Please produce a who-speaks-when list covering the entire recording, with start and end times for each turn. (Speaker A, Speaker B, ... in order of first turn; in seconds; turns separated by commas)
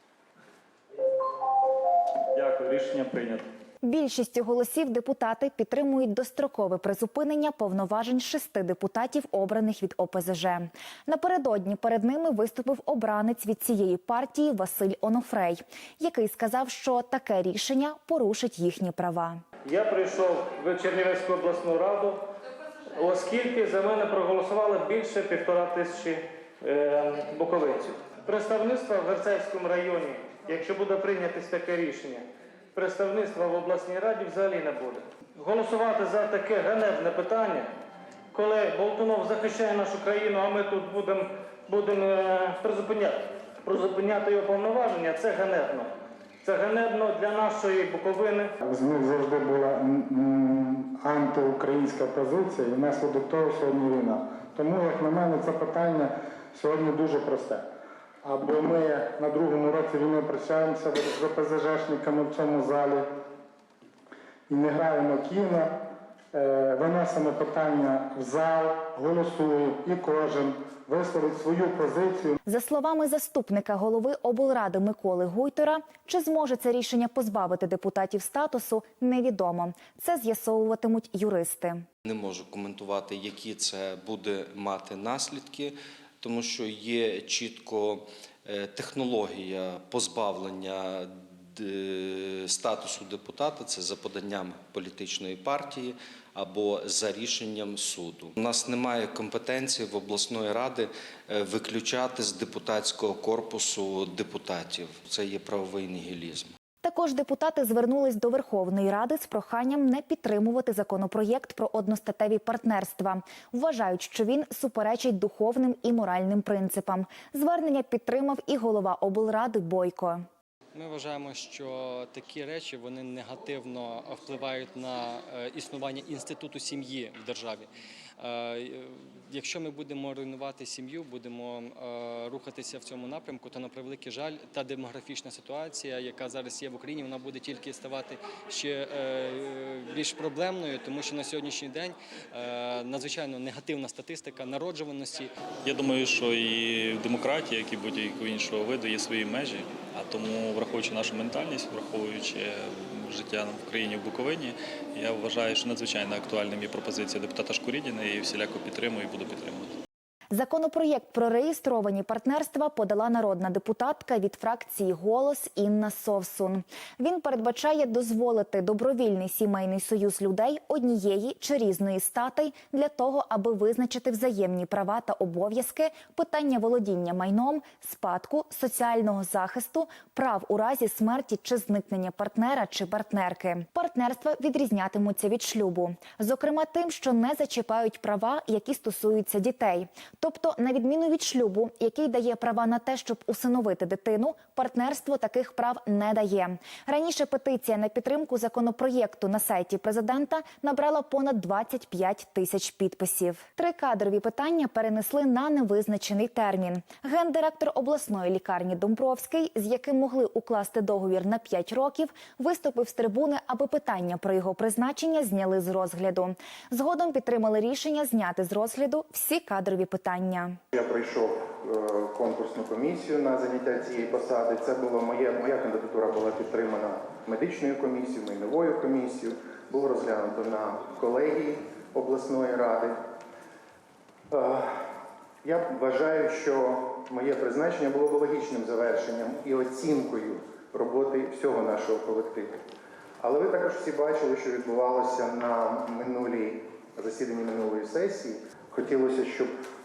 Speaker A: 2.3-3.4, Speaker B: 3.8-19.4, Speaker C: 19.6-22.2, Speaker C: 22.9-37.7, Speaker C: 38.3-45.9, Speaker C: 46.4-48.5, Speaker D: 48.6-57.6, Speaker D: 58.2-62.8, Speaker D: 64.5-65.7, Speaker D: 66.3-69.1, Speaker D: 70.2-71.0, Speaker D: 71.9-72.3, Speaker B: 72.5-81.8, Speaker E: 82.0-106.5, Speaker B: 106.8-120.2, Speaker F: 120.8-127.7, Speaker F: 128.2-128.6, Speaker F: 129.3-145.3, Speaker A: 145.6-159.7, Speaker B: 160.3-220.6, Speaker G: 220.7-233.0, Speaker G: 234.3-234.8, Speaker G: 235.4-242.6, Speaker G: 243.2-249.5